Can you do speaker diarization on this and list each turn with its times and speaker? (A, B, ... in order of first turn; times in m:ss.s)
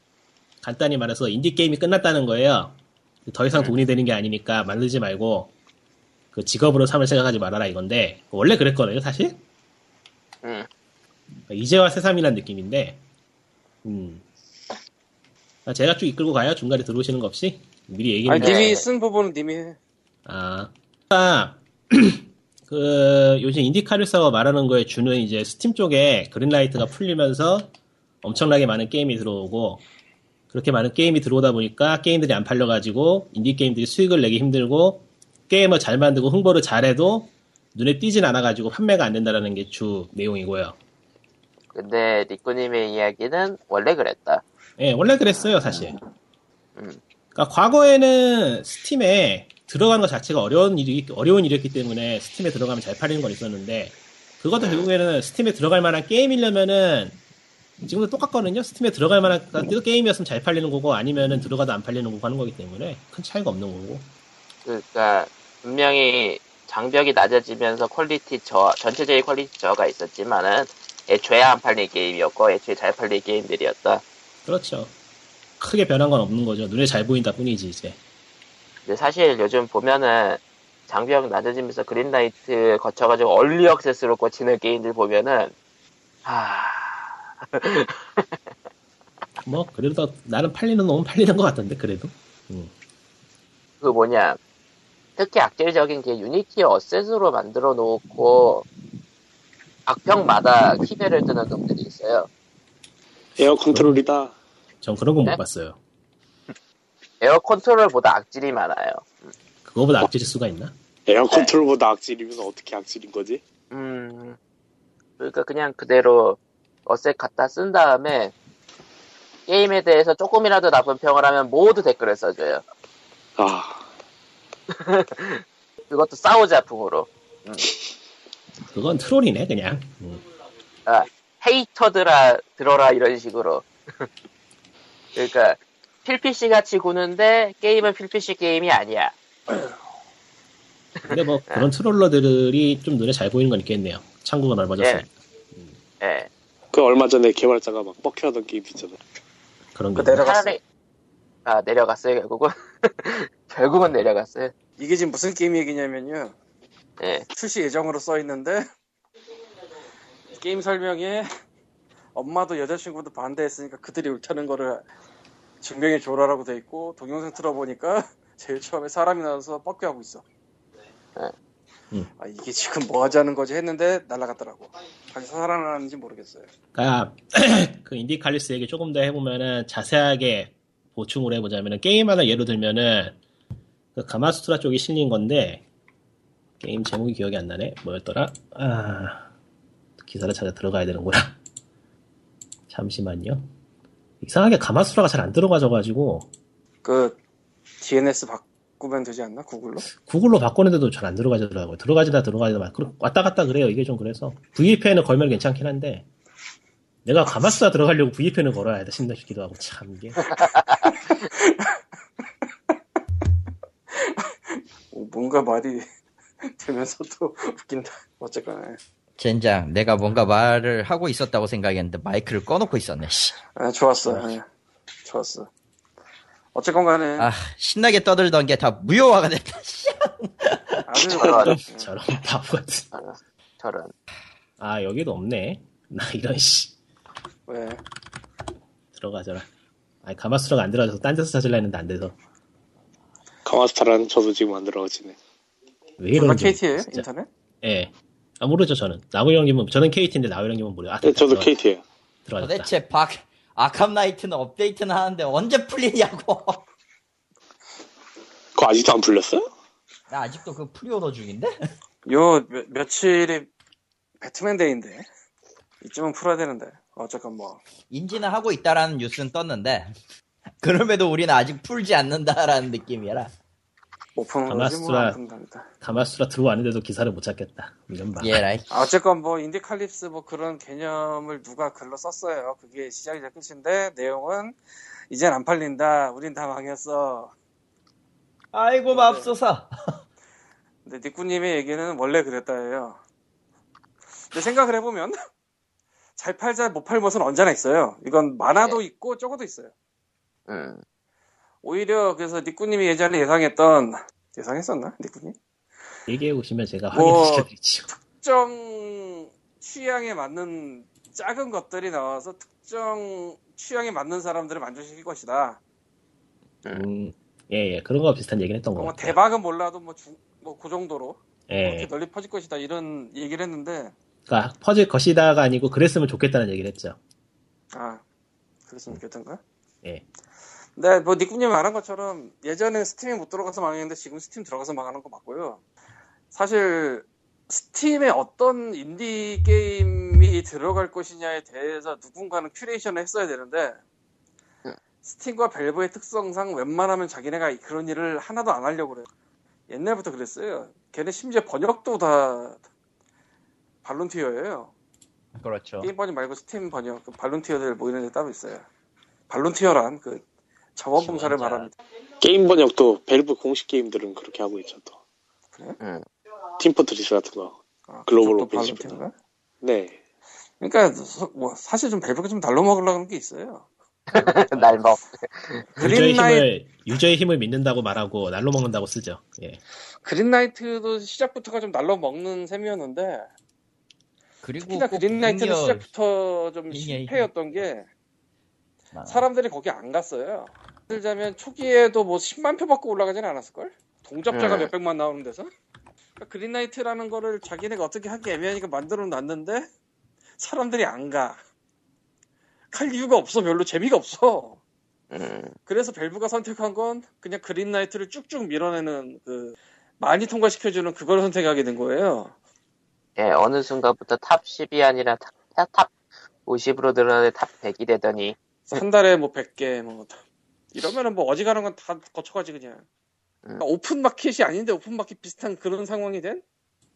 0:00.6-0:05.5 A
0:06.3-0:09.4 A
0:10.4-0:10.7 B
0:11.5-0:13.0 A
0:13.8-0:14.2 A
0:15.6-0:18.8 A
0:18.2-0:19.8 C
0:18.4-0:18.8 B
0:20.2-0:27.7 A
0:28.2-0:29.8 A
0:30.5-0:40.8 A
0:41.7-0:44.4 B
0:44.8-0:46.0 A
0:45.4-0:45.8 B
0:47.3-0:57.2 A
0:57.8-1:04.1 A
1:04.6-1:14.0 B
1:14.4-1:14.9 A
1:15.6-1:18.0 A
1:18.8-1:25.5 B
1:26.2-1:28.5 B
1:29.4-1:32.7 A
1:33.8-1:34.4 B
1:35.2-1:38.6 B
1:39.8-1:42.3 B
1:43.4-1:44.4 D
1:43.7-1:44.0 A
1:44.8-1:45.8 A
1:47.2-1:49.3 B
1:49.6-1:50.7 A
1:51.1-1:53.4 D
1:53.7-1:54.4 B
1:55.2-1:58.3 B
1:59.5-2:02.6 B
2:03.4-2:03.8 D
2:04.7-2:07.7 B
2:08.7-2:10.2 A
2:10.8-2:14.1 B
2:15.2-2:19.1 B
2:21.0-2:21.7 B
2:21.1-2:25.7 A
2:24.8-2:25.0 B
2:26.0-2:26.3 B
2:26.7-2:29.0 D
2:29.7-2:30.2 A
2:30.0-2:30.6 C
2:30.2-2:30.6 B
2:31.4-2:34.5 B
2:34.8-2:36.3 C
2:37.0-2:37.2 B
2:37.3-2:38.6 C
2:40.4-2:41.3 C
2:42.1-2:44.8 C
2:45.6-2:50.2 C
2:52.2-2:56.5 C
2:56.7-3:03.2 A
3:03.9-3:05.6 A
3:06.6-3:09.3 A
3:10.0-3:11.4 A
3:12.7-3:13.5 A
3:14.2-3:16.3 A
3:16.8-3:17.2 C
3:17.8-3:19.9 C
3:20.0-3:26.0 A
3:27.0-3:30.3 A
3:30.5-3:30.9 B
3:31.4-3:31.7 C
3:33.9-3:35.8 C
3:36.4-3:38.8 C
3:39.2-3:43.4 E
3:43.6-3:44.4 C
3:45.0-3:45.5 C
3:46.5-3:47.3 C
3:47.2-3:51.1 E
3:50.9-3:51.9 C
3:51.2-3:51.5 B
3:51.2-3:52.8 A
3:52.9-3:53.9 B
3:54.6-3:56.7 A
3:57.5-3:57.8 C
3:58.9-3:59.5 A
4:00.0-4:02.1 A
4:03.4-4:05.2 D
4:06.0-4:07.1 A
4:06.1-4:07.3 C
4:07.6-4:11.5 A
4:11.0-4:11.8 D
4:12.2-4:12.7 A
4:12.4-4:16.6 E
4:18.5-4:19.5 D
4:20.1-4:21.5 E
4:22.0-4:23.5 C
4:24.2-4:25.0 C
4:25.8-4:27.6 C
4:27.9-4:29.9 E
4:30.6-4:33.3 E
4:34.2-4:35.7 C
4:34.5-4:35.2 A
4:35.8-4:38.4 A
4:38.2-4:38.7 E
4:38.7-4:44.6 C
4:45.1-4:47.3 C
4:48.5-4:49.7 E
4:48.9-4:49.3 C
4:50.8-4:53.0 C
4:54.3-4:55.2 C
4:56.2-4:59.7 C
5:00.5-5:00.8 B
5:01.6-5:05.4 C
5:06.1-5:07.9 A
5:06.9-5:15.6 C
5:16.7-5:19.2 A
5:18.8-5:23.9 C
5:21.5-5:21.9 A
5:24.3-5:27.0 A
5:27.7-5:28.0 C
5:28.7-5:29.4 C
5:30.8-5:35.6 C
5:36.3-5:43.8 C
5:45.0-5:49.1 C
5:49.7-5:52.6 C
5:53.8-5:54.7 C
5:55.4-5:55.9 E
5:55.8-5:58.6 C
5:59.3-6:00.2 C
6:00.8-6:01.7 C
6:01.0-6:01.7 E
6:02.2-6:05.0 D
6:06.6-6:07.6 D
6:07.9-6:09.1 C
6:08.1-6:09.0 D
6:09.6-6:10.0 D
6:10.6-6:14.7 C
6:14.1-6:15.8 B
6:15.8-6:16.5 C
6:15.8-6:19.6 A
6:20.0-6:23.2 C
6:24.4-6:25.8 E
6:24.6-6:27.8 C
6:26.7-6:27.3 E
6:28.9-6:29.3 E
6:29.1-6:35.5 C
6:34.3-6:34.7 B
6:36.2-6:39.7 C
6:40.4-6:41.4 C
6:42.7-6:44.6 C
6:45.1-6:45.6 B
6:45.6-6:52.3 C
6:53.2-6:55.9 B
6:56.4-6:58.8 B
6:58.7-7:00.2 C
7:00.7-7:02.8 C
7:03.6-7:06.4 C